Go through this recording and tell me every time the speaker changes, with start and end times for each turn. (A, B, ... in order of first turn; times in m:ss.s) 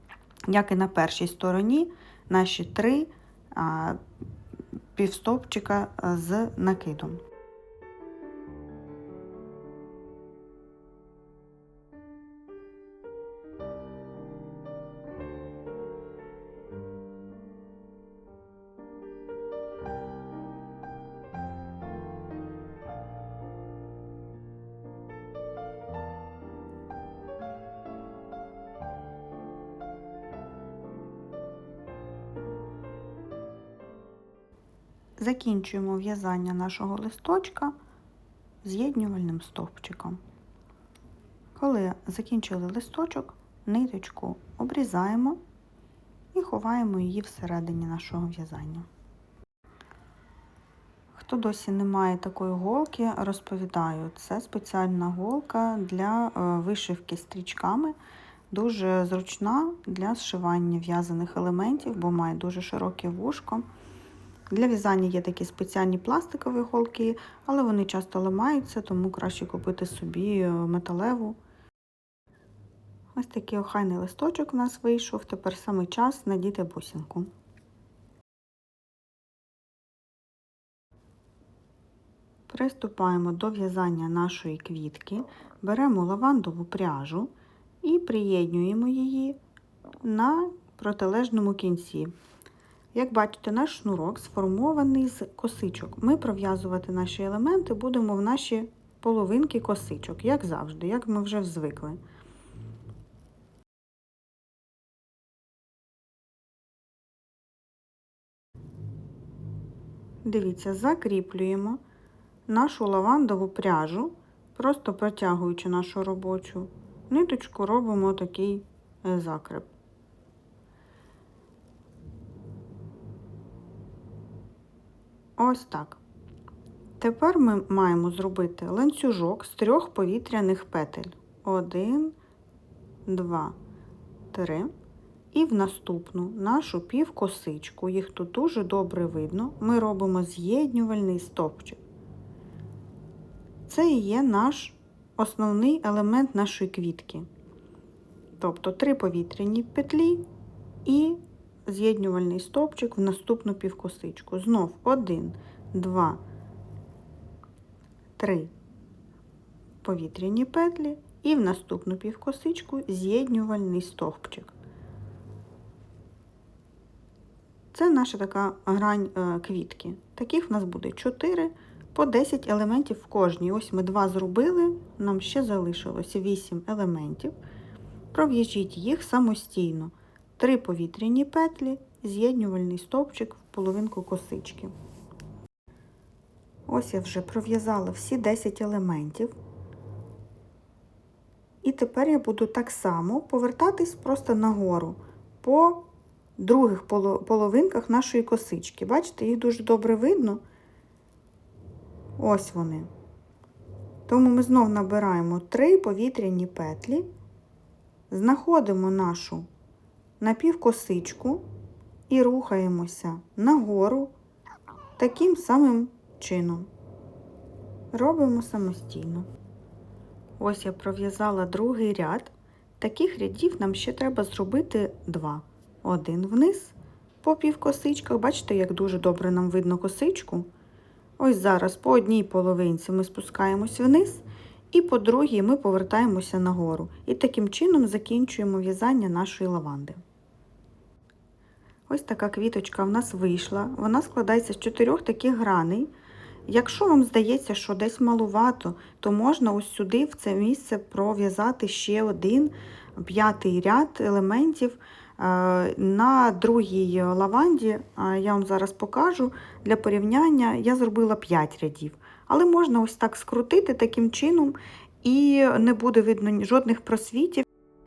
0:00.5-0:04.0 A
0:04.9-0:07.2 A
0:35.2-0:37.7 A
0:38.6-0:40.2 A
0:41.6-0:45.4 A
0:46.3-0:48.9 A
0:51.1-0:58.0 A
0:58.5-1:03.6 A
1:04.5-1:11.4 A
1:13.1-1:17.3 A
1:22.5-1:27.3 A
1:27.8-1:29.4 A
1:30.0-1:32.1 A
1:32.9-1:42.0 A
1:50.2-1:51.8 A
1:52.5-1:59.7 A
2:05.4-2:06.0 A
2:07.0-2:12.2 A
2:13.0-2:13.6 A
2:14.3-2:14.7 A
2:15.3-2:21.8 A
2:23.7-2:27.3 A
2:28.4-2:30.2 A
2:30.8-2:36.2 A
2:38.2-2:38.5 A
2:39.8-2:44.5 A
2:47.7-2:57.3 A
2:58.1-3:04.7 A
3:06.7-3:09.3 A
3:11.6-3:15.8 A
3:16.4-3:20.4 A
3:22.2-3:22.9 A
3:24.1-3:27.1 A
3:28.1-3:29.5 A
3:30.2-3:31.4 A
3:32.1-3:34.1 A
3:35.0-3:36.7 A
3:37.9-3:39.3 A
3:40.4-3:50.5 A
3:51.2-4:00.0 A
4:01.9-4:05.9 A
4:06.5-4:27.4 A